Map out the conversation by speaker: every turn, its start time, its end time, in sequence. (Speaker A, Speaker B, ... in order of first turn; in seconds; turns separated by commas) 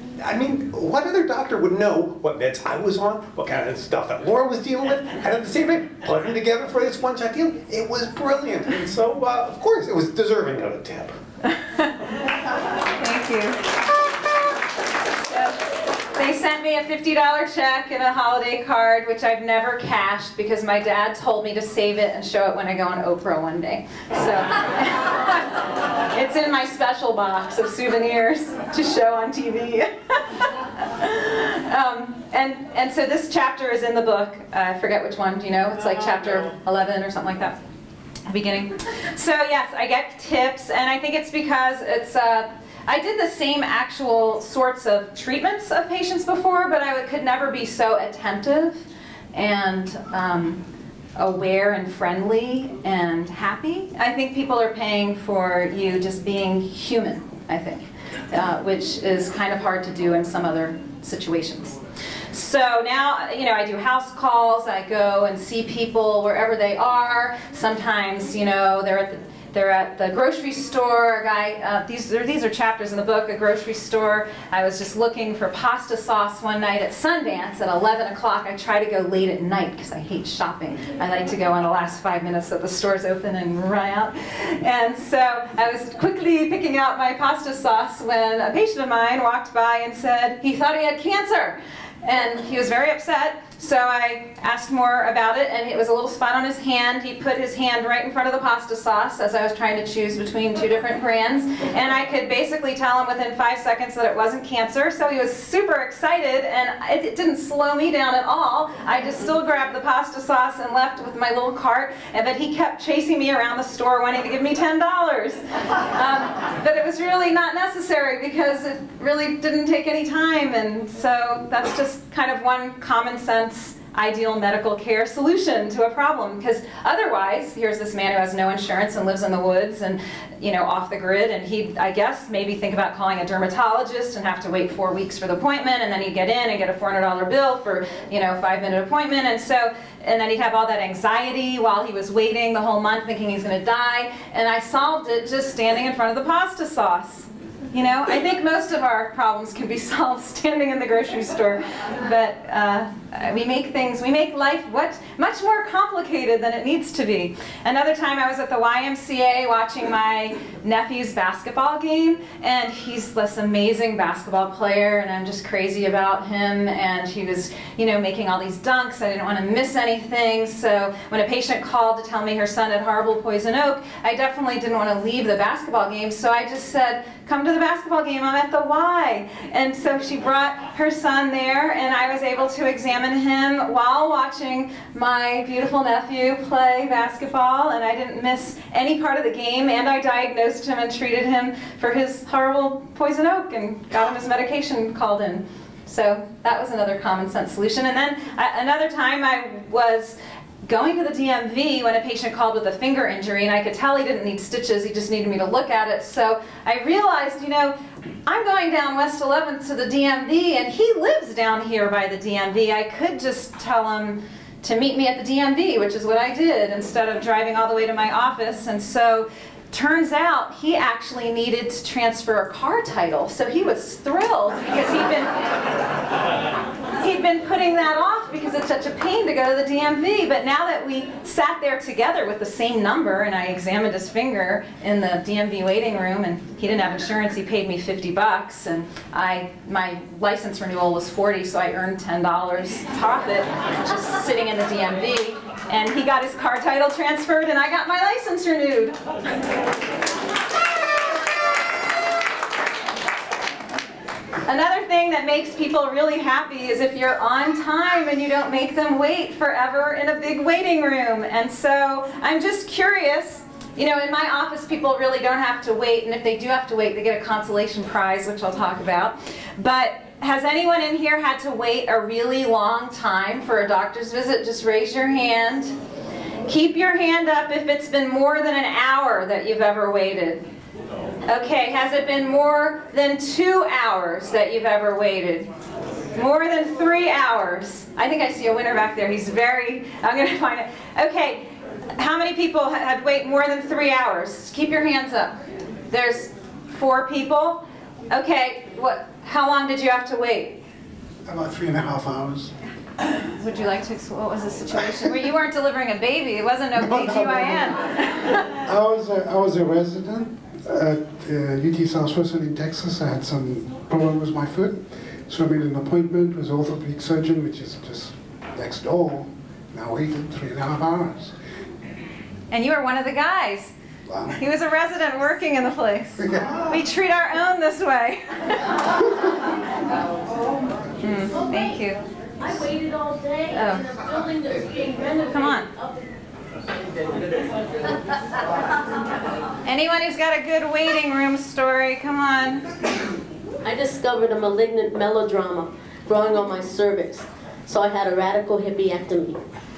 Speaker A: 0.2-11.2, Speaker B: 13.0-13.7, Speaker B: 15.2-15.6, Speaker B: 16.1-25.5, Speaker B: 26.1-30.2, Speaker B: 30.9-37.6, Speaker B: 38.3-48.8, Speaker B: 49.3-50.6, Speaker B: 51.2-61.8, Speaker B: 62.3-207.7, Speaker B: 208.2-225.3, Speaker B: 227.0-249.0, Speaker B: 254.5-275.7, Speaker B: 276.5-280.4, Speaker B: 281.2-285.5, Speaker B: 286.1-295.4, Speaker B: 295.9-300.6, Speaker C: 301.2-302.5, Speaker B: 303.4-308.4, Speaker C: 306.8-307.8, Speaker C: 308.6-321.3, Speaker B: 322.5-323.7, Speaker C: 324.1-324.4, Speaker B: 324.4-328.7, Speaker C: 326.2-326.8, Speaker B: 331.0-332.0, Speaker D: 332.4-336.0, Speaker B: 333.5-333.8, Speaker B: 335.3-335.7, Speaker B: 339.6-342.6, Speaker D: 343.6-349.4